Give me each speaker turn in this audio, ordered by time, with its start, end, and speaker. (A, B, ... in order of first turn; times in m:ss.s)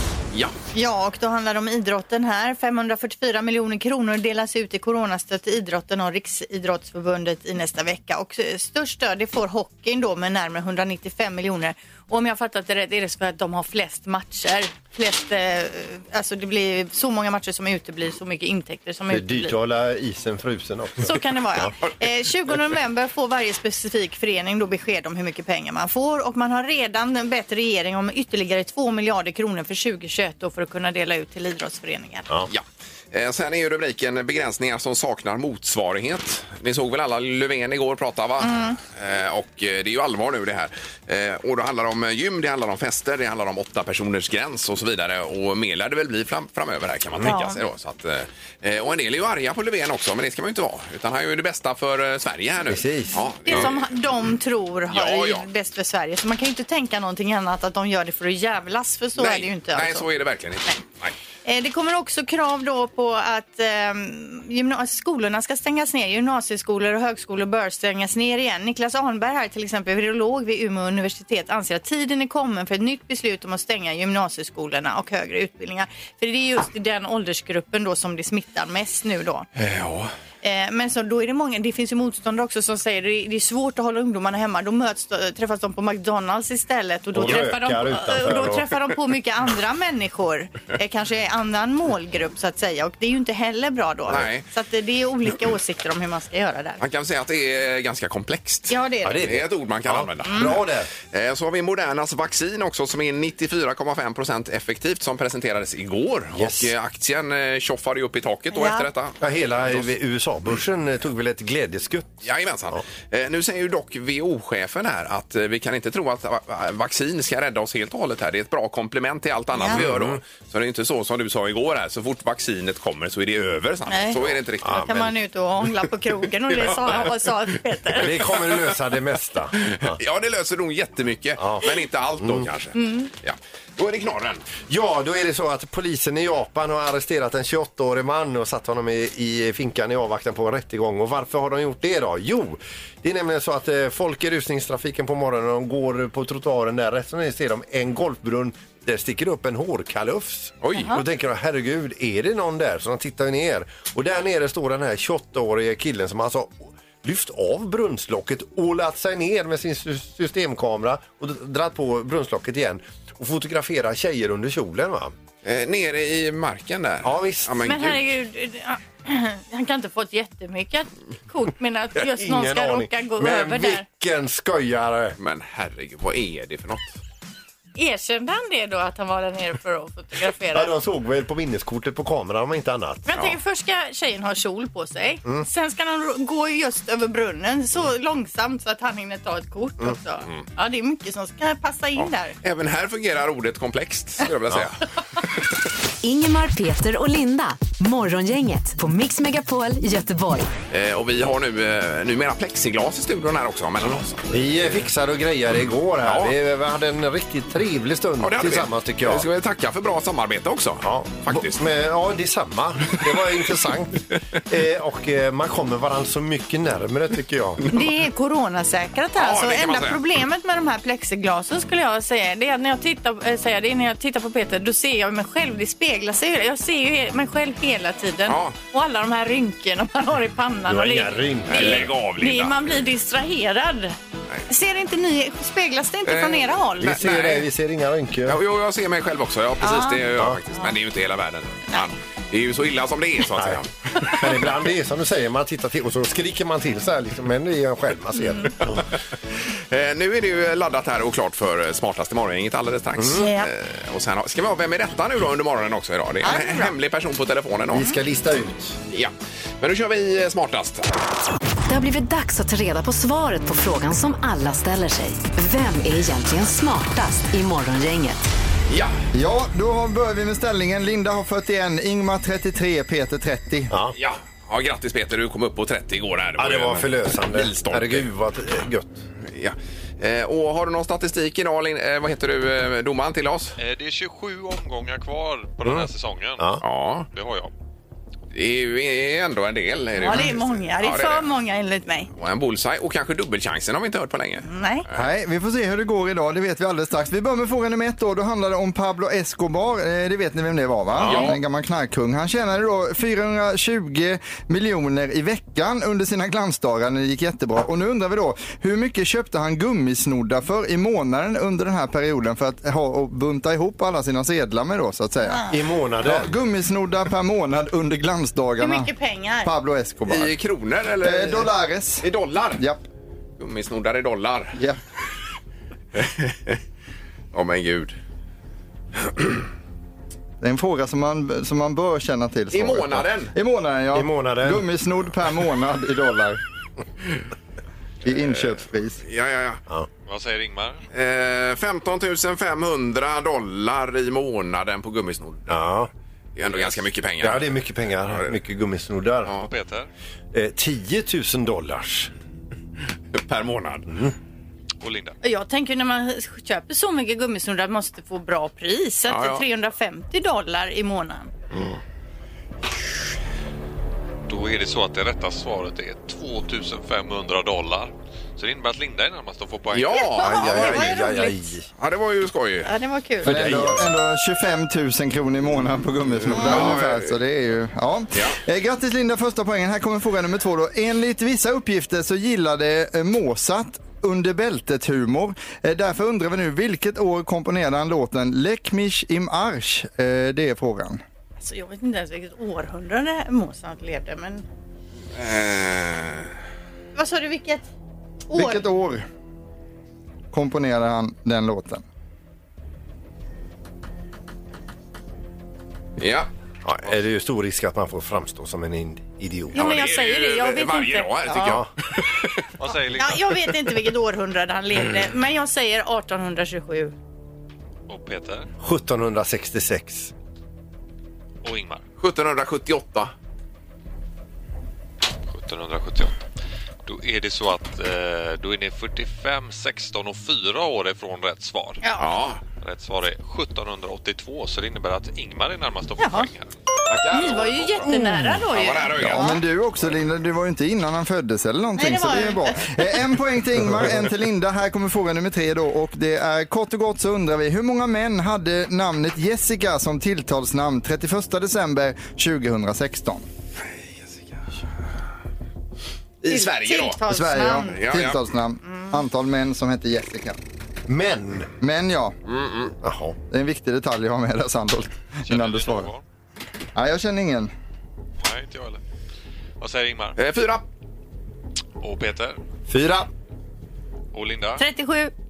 0:00.7-0:19.5 A
0:19.1-0:21.7 B
0:21.0-0:32.3 A
0:32.5-0:53.9 C
0:38.4-0:38.8 A
0:47.2-0:47.6 A
0:52.7-0:53.7 B
0:53.4-1:00.1 A
0:54.9-0:55.4 C
0:59.2-1:01.1 C
1:01.4-1:19.5 A
1:19.6-1:20.1 C
1:20.4-1:36.8 A
1:27.1-1:28.7 B
1:34.1-1:34.4 C
1:36.8-1:40.6 C
1:38.7-1:39.2 A
1:39.0-1:40.9 B
1:40.2-1:40.6 A
1:41.1-1:49.9 C
1:46.3-1:46.7 B
1:48.5-1:48.9 A
1:49.2-1:52.2 B
1:52.2-2:05.0 C
1:59.5-1:59.8 A
1:59.7-2:00.2 B
2:03.9-2:08.1 A
2:04.6-2:05.1 B
2:06.5-2:07.1 C
2:07.9-2:10.0 B
2:09.6-2:14.4 C
2:11.4-2:12.5 B
2:12.7-2:13.1 A
2:14.6-2:45.1 B
2:30.6-2:30.9 C
2:30.7-2:31.0 A
2:45.4-2:48.0 C
2:47.0-2:47.6 B
2:47.6-2:53.8 A
2:52.0-2:55.2 B
2:55.2-2:57.0 C
2:57.8-3:00.7 A
3:00.5-3:03.1 B
3:03.1-3:12.4 A
3:12.0-3:14.8 C
3:16.0-3:20.5 D
3:20.7-3:24.3 C
3:24.3-3:29.2 B
3:26.0-3:26.3 C
3:28.2-3:31.6 C
3:30.8-3:37.6 B
3:37.7-3:54.0 A
3:39.2-3:40.0 C
3:48.3-3:48.6 C
3:50.7-3:51.9 B
3:51.5-3:52.8 C
3:54.5-3:57.1 A
3:56.0-3:57.5 C
3:56.8-3:58.4 B
3:58.2-4:04.3 C
3:59.6-4:00.0 A
4:03.4-4:08.9 B
4:09.7-4:17.9 C
4:13.0-4:13.3 B
4:13.2-4:13.5 A
4:16.2-4:16.7 A
4:17.7-4:18.8 B
4:18.9-4:20.9 C
4:21.7-4:28.2 D
4:28.7-4:28.9 C
4:29.1-4:33.7 E
4:33.7-4:33.9 B
4:33.9-4:38.1 C
4:36.4-4:39.0 B
4:39.3-4:43.6 C
4:43.6-4:46.5 F
4:45.6-4:46.6 B
4:46.6-4:47.1 C
4:47.1-4:47.5 F
4:48.3-4:51.2 C
4:50.0-4:52.1 A
4:52.1-4:54.5 C
4:54.4-4:54.8 A
4:54.9-5:15.5 E
5:01.0-5:01.4 C
5:15.2-5:15.5 A
5:15.5-5:16.3 B
5:16.0-5:18.9 E
5:18.6-5:19.5 A
5:19.4-5:20.3 E
5:20.1-5:22.6 C
5:21.0-5:22.8 E
5:23.4-5:24.6 C
5:25.9-5:26.6 C
5:27.3-5:28.0 C
5:30.4-5:36.4 E
5:32.5-5:33.3 C
5:33.9-5:34.6 B
5:38.0-5:39.0 E
5:38.0-5:39.6 C
5:40.1-5:40.8 F
5:40.9-5:45.5 C
5:45.5-5:45.9 B
5:46.4-5:47.5 C
5:47.2-5:49.3 B
5:48.0-5:48.3 C
5:49.4-5:49.9 F
5:50.3-5:52.1 B
5:53.1-5:53.9 C
5:53.9-5:54.1 B
5:54.8-5:55.2 F
5:55.2-6:01.3 A
5:59.1-5:59.4 C
6:04.3-6:10.0 F
6:09.7-6:11.0 C
6:09.9-6:11.6 A
6:10.2-6:11.7 B
6:11.8-6:12.7 C
6:12.6-6:13.3 A
6:13.2-6:13.8 B
6:13.2-6:31.0 E
6:16.3-6:16.7 A
6:16.3-6:17.1 C
6:31.4-6:34.4 A
6:35.1-6:36.3 C
6:36.9-6:37.7 A
6:38.3-6:38.6 A
6:38.3-6:39.0 E
6:40.3-6:41.8 E
6:46.0-6:46.3 C
6:46.6-6:49.6 B
6:49.5-6:51.5 A
6:49.5-6:52.4 C
6:51.3-6:51.7 B
6:52.6-6:53.5 F
6:52.9-6:56.9 A
6:57.9-6:58.5 F
6:58.6-7:00.1 B
7:01.4-7:01.8 F
7:02.0-7:03.1 C
7:05.3-7:06.2 F
7:06.8-7:11.8 F
7:12.0-7:12.4 C
7:12.6-7:16.5 F
7:16.0-7:16.3 A
7:16.9-7:19.3 C
7:17.1-7:19.4 A
7:19.0-7:33.2 E
7:21.8-7:22.7 A
7:36.2-7:37.0 C
7:36.3-7:37.8 A
7:37.1-7:40.4 E
7:37.6-7:38.2 C
7:40.9-7:41.5 B
7:41.6-7:42.1 E
7:42.3-7:42.7 C
7:42.8-7:43.2 B
7:43.3-7:45.9 E
7:45.2-7:46.0 F
7:46.7-7:47.5 E
7:48.2-7:48.8 F
7:49.6-7:50.2 F
7:50.2-7:50.6 C
7:51.8-7:52.4 F
7:52.7-7:53.0 B
7:54.1-7:54.6 F
7:54.6-7:55.1 A